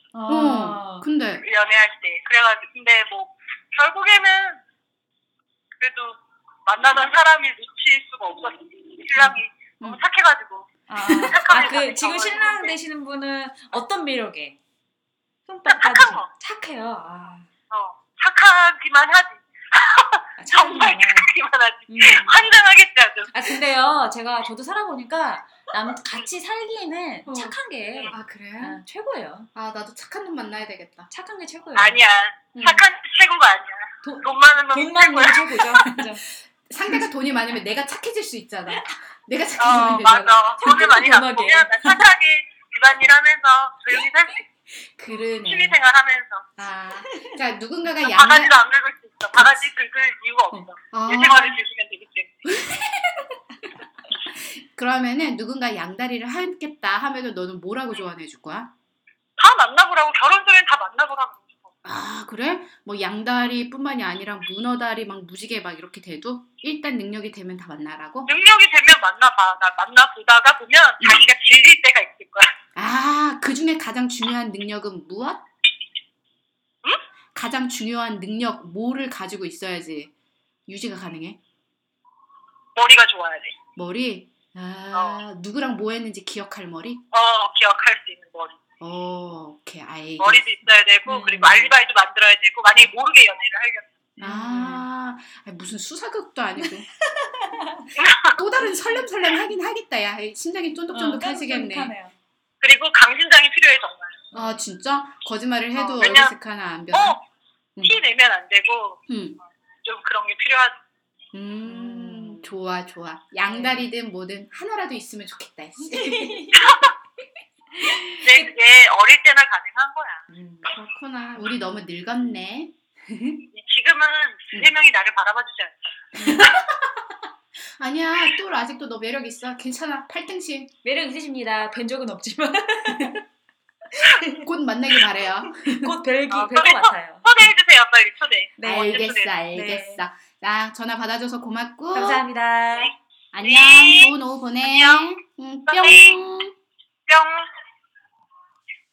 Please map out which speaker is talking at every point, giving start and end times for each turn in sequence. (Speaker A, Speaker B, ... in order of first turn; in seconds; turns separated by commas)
Speaker A: 0.1-1.1, Speaker B: 0.3-1.4, Speaker C: 1.4-4.6, Speaker C: 5.8-12.7, Speaker B: 9.2-10.0, Speaker A: 10.9-14.6, Speaker A: 15.4-17.5, Speaker C: 15.7-16.3, Speaker C: 17.7-23.6, Speaker A: 20.4-21.3, Speaker A: 21.9-22.4, Speaker A: 23.3-29.5, Speaker B: 27.2-27.6, Speaker B: 28.1-28.8, Speaker B: 29.5-31.1, Speaker A: 31.1-32.0, Speaker C: 31.7-35.7, Speaker B: 32.5-32.8, Speaker A: 34.0-36.3, Speaker B: 35.7-36.1, Speaker B: 36.7-40.9, Speaker C: 39.6-44.5, Speaker A: 40.6-42.1, Speaker B: 45.0-45.8, Speaker C: 45.4-46.5, Speaker B: 46.6-48.6, Speaker C: 48.0-52.4, Speaker B: 49.3-49.6, Speaker B: 50.5-51.6, Speaker B: 52.4-53.2, Speaker B: 54.3-58.7, Speaker C: 59.4-61.7, Speaker B: 61.8-68.3, Speaker C: 68.2-72.5, Speaker B: 71.0-71.2, Speaker B: 72.7-75.4, Speaker B: 77.3-80.1, Speaker B: 80.7-81.4, Speaker C: 82.8-83.5, Speaker B: 83.8-87.0, Speaker C: 84.9-85.2, Speaker C: 87.1-88.5, Speaker B: 88.8-90.7, Speaker C: 90.2-93.8, Speaker A: 91.0-91.7, Speaker B: 94.2-96.9, Speaker A: 94.2-94.8, Speaker A: 96.6-97.9, Speaker C: 98.0-98.4, Speaker B: 98.3-101.9, Speaker A: 98.6-99.0, Speaker A: 100.9-102.1, Speaker C: 102.6-104.2, Speaker A: 104.3-104.6, Speaker B: 104.3-107.2, Speaker C: 105.7-106.3, Speaker C: 106.9-107.2, Speaker C: 107.8-109.0, Speaker B: 109.1-109.4, Speaker C: 109.8-110.8, Speaker B: 111.3-116.5, Speaker A: 111.6-112.6, Speaker A: 113.5-113.9, Speaker A: 115.8-116.8, Speaker C: 116.6-116.9, Speaker A: 117.7-118.4, Speaker C: 118.2-120.2, Speaker A: 120.3-120.8, Speaker B: 120.6-123.5, Speaker C: 123.5-126.1, Speaker B: 126.2-126.6, Speaker A: 126.2-126.5, Speaker B: 127.8-130.7, Speaker A: 130.8-133.2, Speaker B: 132.9-133.2, Speaker A: 133.9-134.4, Speaker B: 134.4-135.9, Speaker A: 135.5-137.5, Speaker C: 136.3-139.3, Speaker A: 138.6-140.0, Speaker B: 138.6-142.3, Speaker A: 141.9-142.9, Speaker B: 143.3-146.5, Speaker C: 143.4-145.1, Speaker C: 145.7-146.2, Speaker C: 147.1-147.5